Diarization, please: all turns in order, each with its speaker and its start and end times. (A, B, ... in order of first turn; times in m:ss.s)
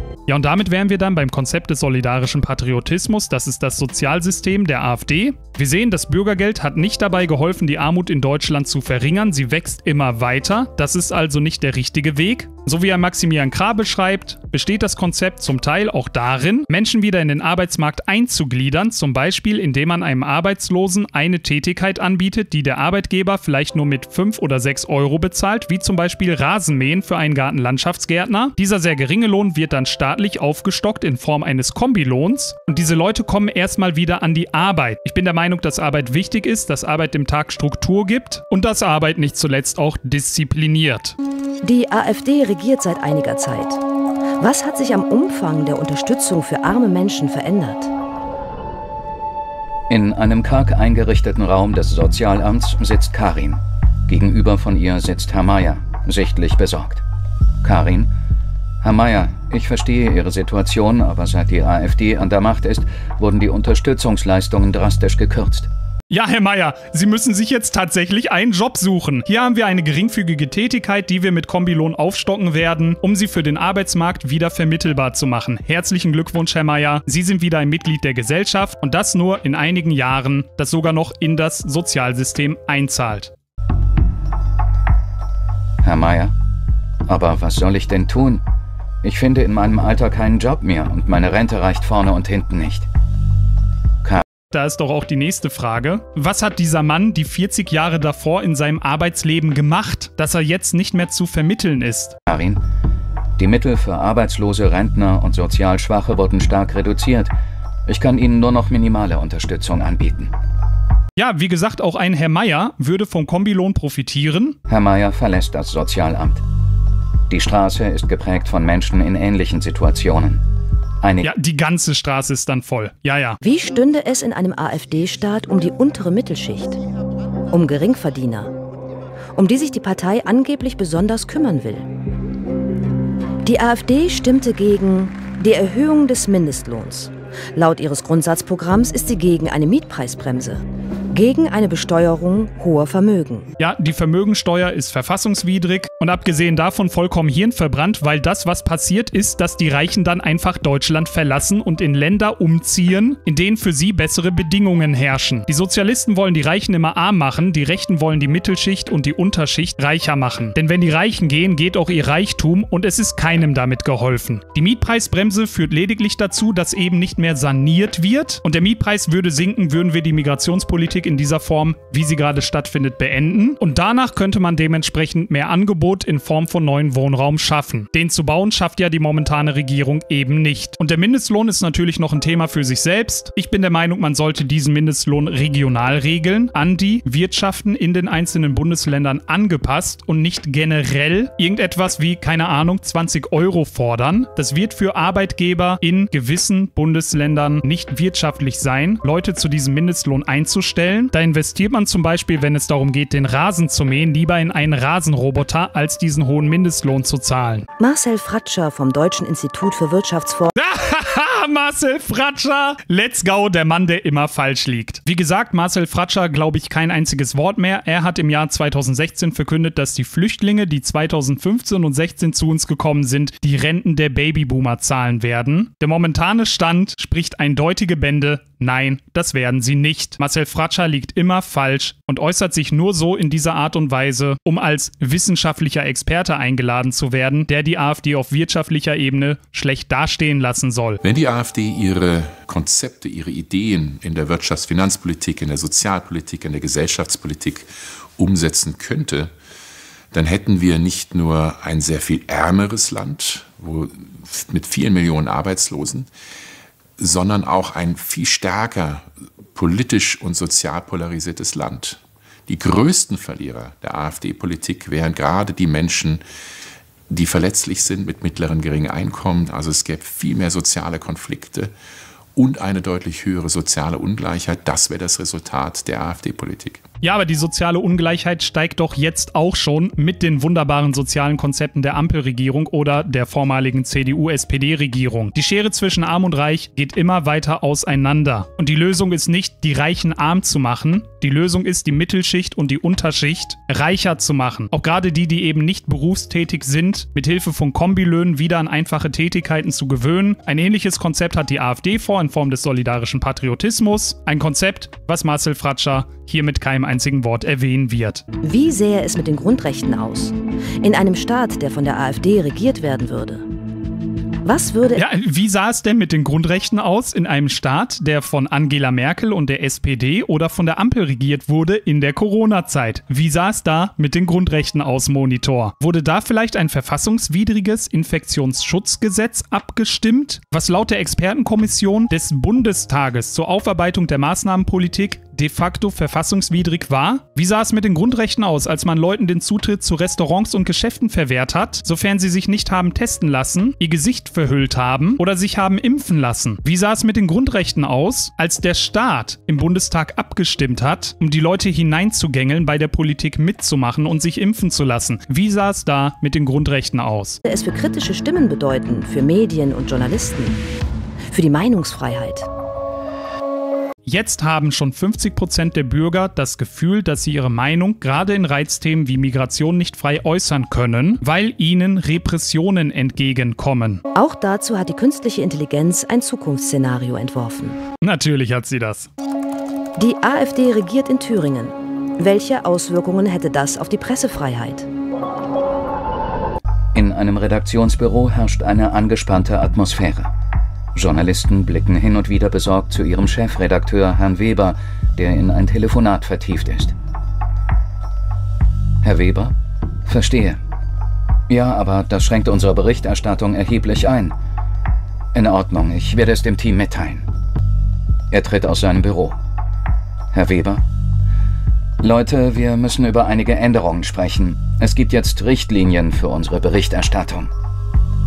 0:00.3-0:41.2 A
0:41.6-0:43.8 B
0:44.4-0:47.9 B
0:49.9-0:57.0 C
0:57.6-0:58.1 C
0:58.8-1:05.7 C
1:06.1-1:23.3 A
1:25.8-1:26.3 C
1:27.1-1:28.4 C
1:29.0-1:32.9 C
1:34.5-1:42.2 A
1:42.3-1:42.6 C
1:43.4-1:47.3 C
1:47.9-1:50.3 C
1:51.2-1:54.6 A
1:54.7-1:56.4 C
1:57.3-2:00.4 C
2:01.0-2:01.3 C
2:01.2-2:03.4 A
2:03.4-2:06.8 B
2:07.5-2:08.5 B
2:09.4-2:11.9 B
2:13.4-2:23.5 B
2:23.6-3:27.7 A
3:27.8-3:30.5 B
3:30.6-4:01.0 A
4:01.0-4:09.3 D
4:10.1-4:16.1 D
4:17.0-4:26.2 D
4:27.1-4:31.7 D
4:32.4-4:36.8 D
4:37.0-5:08.2 A
5:08.4-5:13.5 B
5:14.4-5:15.0 B
5:15.0-5:57.4 A
5:57.4-6:00.6 B
6:01.3-6:02.5 B
6:04.0-6:14.0 A
6:14.1-6:17.8 B
6:18.0-6:19.1 A
6:20.0-6:24.9 B
6:26.9-6:30.3 C
6:31.0-6:37.0 C
6:39.0-6:39.6 C
6:40.1-6:40.6 C
6:41.5-6:44.4 C
6:45.3-6:47.3 C
6:48.3-6:49.4 C
6:50.3-6:50.8 C
6:52.0-6:57.5 C